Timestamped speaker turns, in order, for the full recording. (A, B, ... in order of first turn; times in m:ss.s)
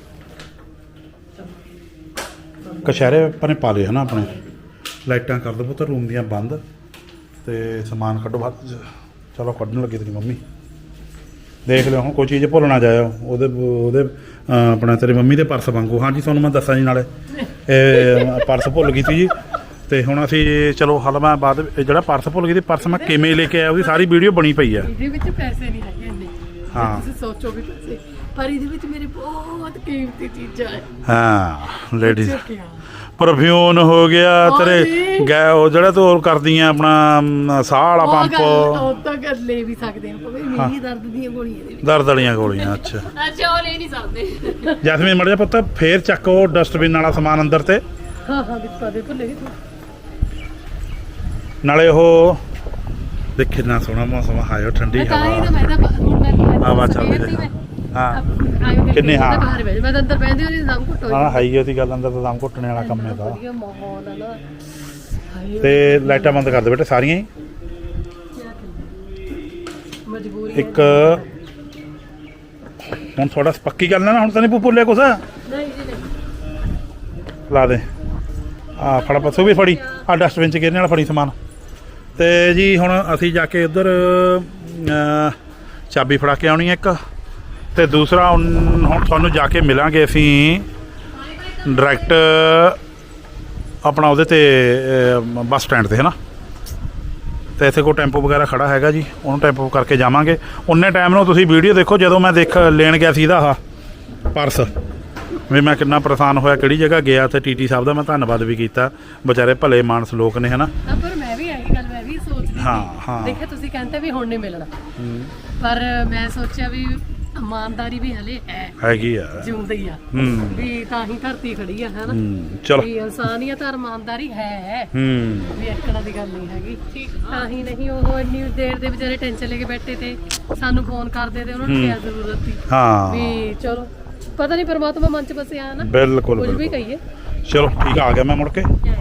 0:02.6-0:02.9 A
0:02.8-0:04.4 B
0:05.0-0:06.6 B
0:07.4-0:10.4 B
0:11.6-0:17.1 B
0:17.3-0:18.5 A
0:17.6-0:19.4 B
0:19.9-0:24.9 B
0:22.8-0:23.2 A
0:24.8-0:30.9 A
0:26.7-0:27.1 B
0:31.0-0:32.4 B
0:32.0-0:32.8 A
0:33.2-0:38.9 B
0:34.4-0:35.3 A
0:38.0-0:42.7 A
0:41.8-0:43.1 B
0:43.1-0:44.8 C
0:44.8-0:47.8 B
0:48.2-0:49.6 A
0:51.6-0:52.4 B
0:53.4-0:55.6 B
0:54.9-0:57.5 A
0:56.6-0:58.2 B
0:58.1-1:01.5 A
0:58.9-0:59.5 B
1:01.1-1:03.4 B
1:02.8-1:04.4 A
1:05.3-1:06.6 A
1:05.6-1:07.3 B
1:08.4-1:08.9 A
1:10.0-1:11.2 A
1:10.5-1:11.2 B
1:12.9-1:15.2 B
1:15.4-1:16.1 A
1:17.5-1:17.8 B
1:18.8-1:21.3 B
1:19.0-1:19.7 A
1:22.2-1:25.4 B
1:25.9-1:27.0 B
1:27.7-1:30.7 B
1:31.2-1:32.1 C
1:31.6-1:32.8 B
1:33.8-1:36.1 B
1:37.6-1:43.6 B
1:44.3-1:44.7 B
1:45.5-1:50.7 B
1:50.8-1:54.7 A
1:52.6-1:53.4 B
1:55.0-1:55.3 B
1:55.6-1:58.8 A
1:58.8-1:59.5 B
1:59.4-2:02.2 A
2:00.1-2:00.6 B
2:02.1-2:02.9 B
2:02.8-2:04.9 A
2:04.9-2:05.6 B
2:05.6-2:17.0 A
2:06.9-2:07.5 C
2:11.6-2:12.0 B
2:12.7-2:13.5 B
2:15.8-2:16.8 B
2:17.4-2:18.7 B